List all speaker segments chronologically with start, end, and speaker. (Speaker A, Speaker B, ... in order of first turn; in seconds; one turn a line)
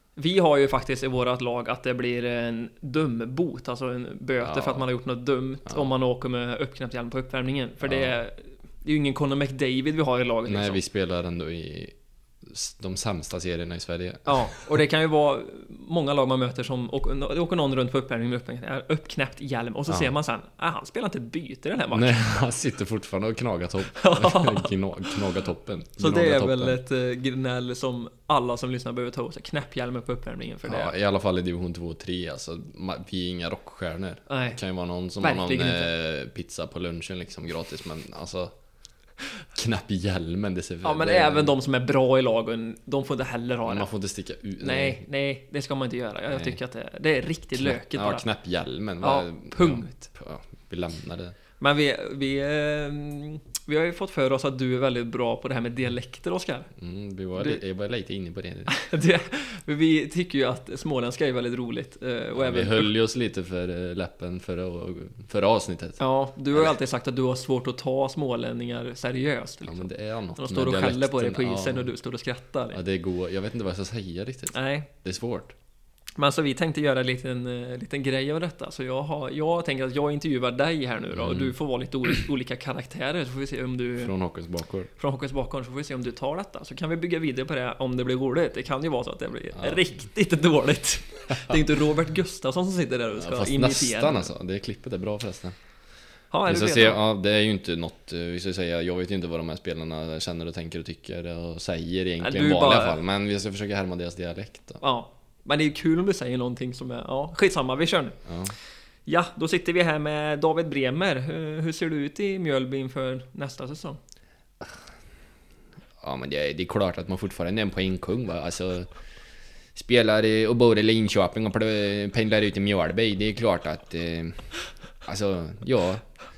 Speaker A: 0.1-10.8
Speaker B: 4.4-4.8
Speaker B: 7.8-8.1
Speaker B: 10.4-14.3
Speaker A: 14.2-22.2
Speaker B: 21.9-26.8
Speaker A: 23.9-25.1
Speaker A: 26.0-30.9
Speaker B: 30.6-38.5
Speaker A: 34.3-34.6
Speaker A: 35.2-35.9
Speaker B: 39.5-41.6
Speaker A: 40.8-43.9
Speaker B: 43.6-45.0
Speaker A: 44.6-48.2
Speaker B: 46.3-46.6
Speaker B: 47.5-51.4
Speaker A: 49.0-50.1
Speaker A: 51.6-56.7
Speaker B: 56.8-58.7
Speaker A: 58.7-62.9
Speaker B: 62.3-66.0
Speaker A: 66.0-72.8
Speaker B: 69.6-71.9
Speaker B: 72.7-75.5
Speaker A: 74.5-74.9
Speaker A: 76.2-84.1
Speaker B: 81.1-81.5
Speaker B: 84.0-84.9
Speaker A: 85.0-94.3
Speaker B: 93.2-95.5
Speaker A: 96.3-97.0
Speaker B: 96.5-104.8
Speaker A: 102.2-103.0
Speaker A: 104.8-108.2
Speaker B: 108.2-108.5
Speaker A: 109.1-114.0
Speaker B: 116.0-118.9
Speaker B: 119.8-124.5
Speaker B: 125.0-126.0